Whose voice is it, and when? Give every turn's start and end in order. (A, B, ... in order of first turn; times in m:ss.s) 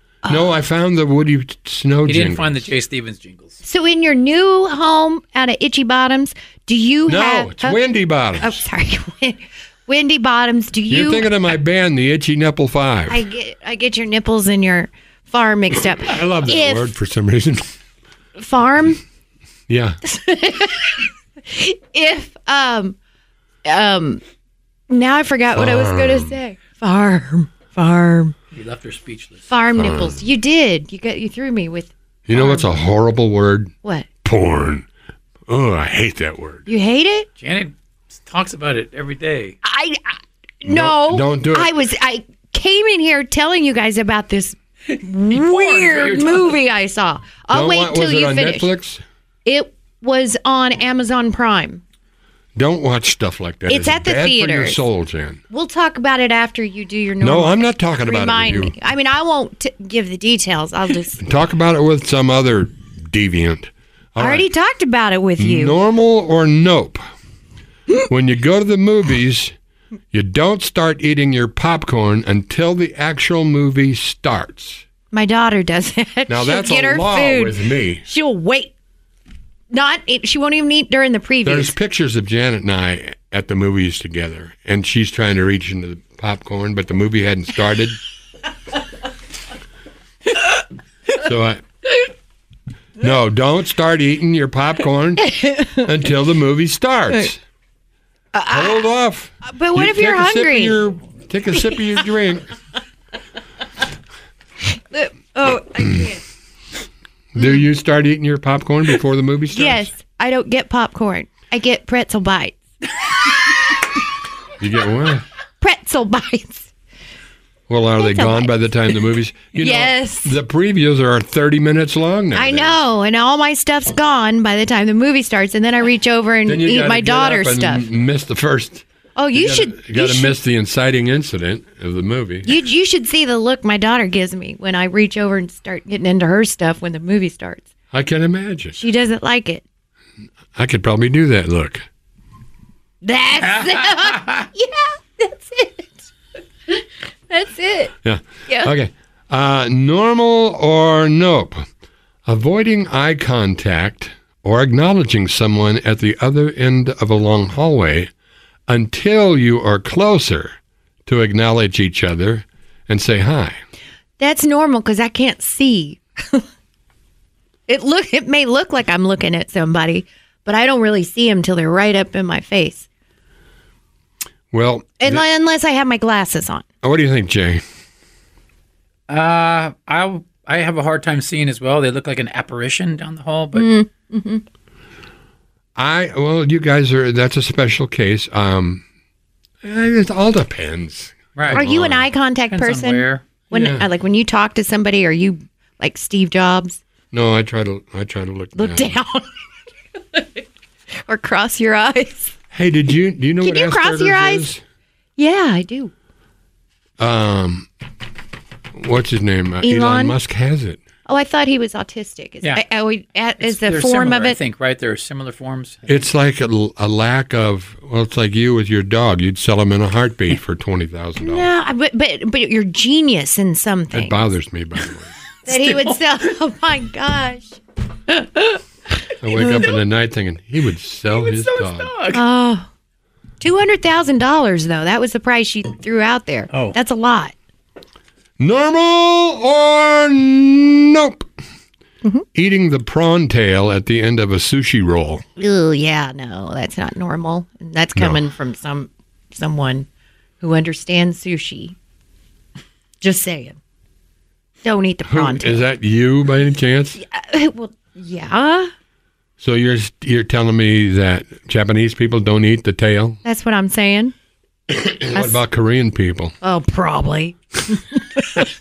0:00.2-0:00.5 A
0:00.3-0:02.7 B
0:02.0-0:03.6 C
0:03.6-0:07.8 A
0:07.0-0:08.6 B
0:08.4-0:11.3 A
0:10.9-0:13.2 B
0:13.1-0:16.9 A
0:16.0-0:17.7 B
0:18.4-0:19.0 A
0:19.7-0:20.0 B
0:20.0-0:23.0 A
0:23.6-0:24.2 A
0:24.9-0:28.3 A
0:25.5-0:26.4 B
0:28.5-0:29.5 C
0:29.5-0:32.7 A
0:29.7-0:30.2 B
0:32.2-0:33.7 B
0:34.2-0:34.9 B
0:35.5-0:36.7 B
0:36.7-0:37.3 A
0:37.4-0:39.6 C
0:39.6-0:48.7 A
0:40.6-0:41.7 B
0:45.3-0:46.6 C
0:47.5-0:49.0 B
0:49.4-0:51.8 A
0:52.6-0:55.4 B
0:53.7-0:54.8 A
0:55.5-1:01.2 A
0:57.2-0:58.7 B
1:01.2-1:04.4 B
1:04.2-1:05.8 A
1:05.4-1:07.0 B
1:08.1-1:09.5 B
1:10.1-1:14.8 B
1:15.1-1:18.7 A
1:16.3-1:18.0 B
1:19.7-1:21.7 A
1:21.4-1:28.0 B
1:31.1-1:31.6 B
1:33.0-1:37.4 B
1:35.2-1:35.8 A
1:38.3-1:38.9 A
1:38.5-1:42.5 B
1:39.4-1:40.8 A
1:44.8-1:46.2 A
1:47.3-1:49.9 B
1:49.5-1:52.6 A
1:54.6-1:55.2 B
1:55.6-1:56.7 A
1:57.7-2:02.8 B
1:58.0-1:59.0 A
1:59.5-2:00.4 A
2:02.3-2:07.9 A
2:06.4-2:12.5 B
2:09.2-2:10.3 A
2:12.4-2:17.7 A
2:17.9-2:18.8 B
2:18.8-2:19.6 A
2:20.5-2:21.8 B
2:23.0-2:26.1 A
2:23.6-2:24.3 C
2:26.7-2:27.9 A
2:28.0-2:31.6 B
2:28.5-2:28.7 A
2:32.2-2:38.1 B
2:38.7-2:43.6 B
2:44.2-2:46.4 A
2:47.7-2:52.8 A
2:54.5-2:55.2 B
2:55.0-2:56.6 A
2:56.8-2:57.6 B
2:59.1-3:03.7 C
3:03.5-3:04.4 A
3:05.8-3:08.8 B
3:09.6-3:12.0 B
3:11.3-3:11.6 C
3:11.5-3:16.8 A
3:12.5-3:13.2 C
3:13.5-3:13.8 B
3:17.1-3:19.0 B
3:18.6-3:19.3 A
3:20.1-3:20.4 A
3:21.0-3:22.3 A
3:22.5-3:24.6 B
3:23.4-3:24.5 A
3:25.2-3:25.9 A
3:27.0-3:27.7 B
3:28.8-3:30.8 B
3:29.6-3:30.2 A
3:31.1-3:34.4 A
3:33.4-3:36.0 C
3:35.9-3:41.5 B
3:41.2-3:44.2 A
3:43.9-3:45.1 B
3:45.4-3:47.6 A
3:45.5-3:46.0 C
3:49.2-3:51.9 B
3:49.3-3:49.7 A
3:51.1-3:52.2 C
3:52.1-3:52.7 A
3:53.4-3:57.3 A
3:58.4-4:01.3 B
4:02.3-4:05.2 B
4:05.4-4:09.9 A
4:08.0-4:08.2 B
4:10.4-4:11.8 A
4:13.0-4:13.6 A
4:14.6-4:15.6 A
4:15.1-4:17.0 B
4:17.0-4:18.7 A
4:19.4-4:23.2 B
4:23.2-4:24.1 A
4:24.7-4:26.3 B
4:26.4-4:28.4 A